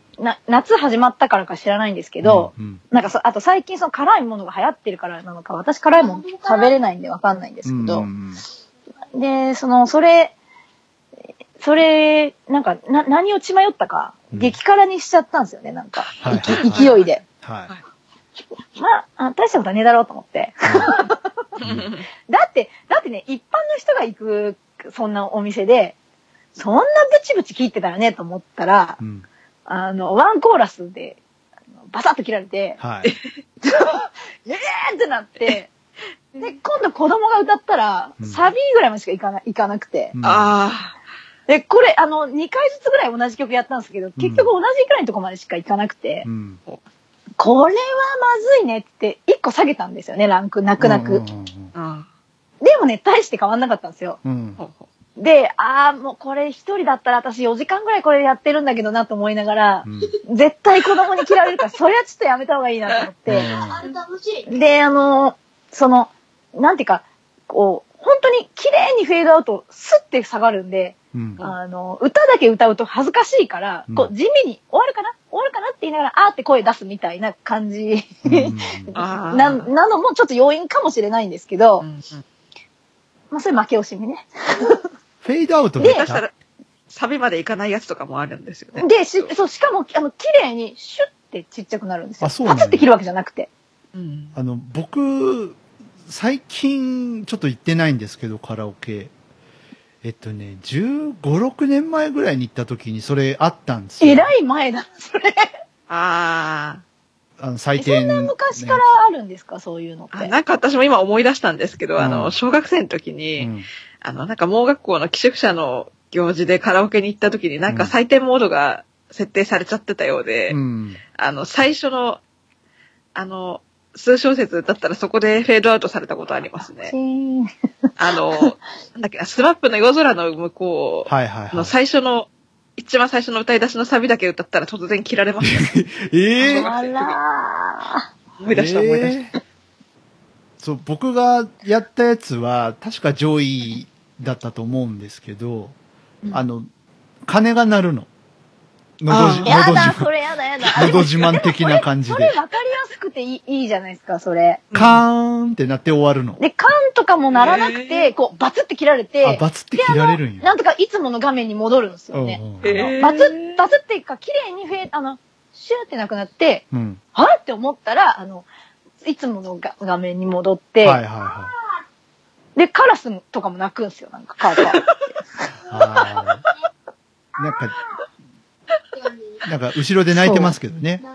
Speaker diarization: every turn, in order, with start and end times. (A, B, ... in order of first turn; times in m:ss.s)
0:00.2-0:08.1 A
0:02.2-0:02.8 B
0:07.6-0:08.4 B
0:09.1-0:10.3 A
0:11.6-0:17.2 A
0:14.3-0:14.6 B
0:16.1-0:17.8 C
0:16.2-0:17.7 B
0:18.8-0:21.3 A
0:20.6-0:20.9 B
0:21.6-0:22.0 C
0:21.6-0:21.9 B
0:22.3-0:26.0 A
0:26.5-0:29.0 A
0:29.0-0:29.2 B
0:29.7-0:31.2 A
0:31.9-0:32.8 A
0:32.8-0:33.1 B
0:33.6-0:35.7 A
0:36.4-0:40.1 A
0:38.2-0:38.5 B
0:40.1-0:40.5 B
0:40.2-0:40.9 C
0:41.5-0:46.2 A
0:44.2-0:44.5 B
0:46.2-0:46.6 B
0:47.4-0:51.2 A
0:50.8-0:51.7 B
0:51.7-0:52.1 C
0:52.6-0:54.2 A
0:54.2-0:54.6 B
0:54.6-0:54.9 C
0:55.2-1:03.5 A
0:59.8-1:00.1 B
1:03.3-1:03.8 B
1:04.4-1:21.8 A
1:11.1-1:11.4 B
1:18.2-1:18.9 B
1:18.9-1:19.7 C
1:21.8-1:22.2 C
1:23.3-1:24.9 A
1:25.2-1:26.2 B
1:25.8-1:26.1 A
1:25.8-1:26.3 C
1:26.9-1:29.3 C
1:28.8-1:33.5 A
1:32.2-1:32.9 B
1:33.9-1:34.3 C
1:34.3-1:39.1 B
1:40.0-1:44.3 B
1:44.0-1:45.5 A
1:45.9-1:46.8 C
1:47.4-1:48.8 B
1:47.8-1:50.3 A
1:50.1-2:00.6 C
1:52.0-1:52.3 B
1:53.4-1:53.7 B
1:57.7-1:57.9 B
2:00.5-2:01.0 B
2:01.2-2:02.2 C
2:03.1-2:06.9 C
2:06.9-2:07.5 A
2:08.0-2:15.7 C
2:11.0-2:11.7 B
2:15.4-2:16.7 B
2:16.4-2:18.1 A
2:16.4-2:17.2 C
2:18.4-2:19.2 C
2:18.5-2:19.3 B
2:20.6-2:25.7 B
2:26.3-2:26.7 B
2:27.2-2:28.1 B
2:29.0-2:30.1 B
2:29.1-2:29.5 C
2:29.4-2:34.6 A
2:30.7-2:32.4 B
2:34.7-2:35.0 C
2:34.7-2:36.4 B
2:36.4-2:48.4 A
2:37.4-2:38.1 C
2:39.2-2:40.5 B
2:42.1-2:42.9 B
2:42.6-2:43.6 C
2:46.7-2:47.0 B
2:49.0-2:51.0 A
2:50.8-2:51.5 B
2:52.5-2:54.8 A
2:54.5-2:54.9 C
2:55.7-2:56.4 B
2:57.4-2:57.8 B
2:59.4-3:01.0 B
3:00.1-3:00.5 A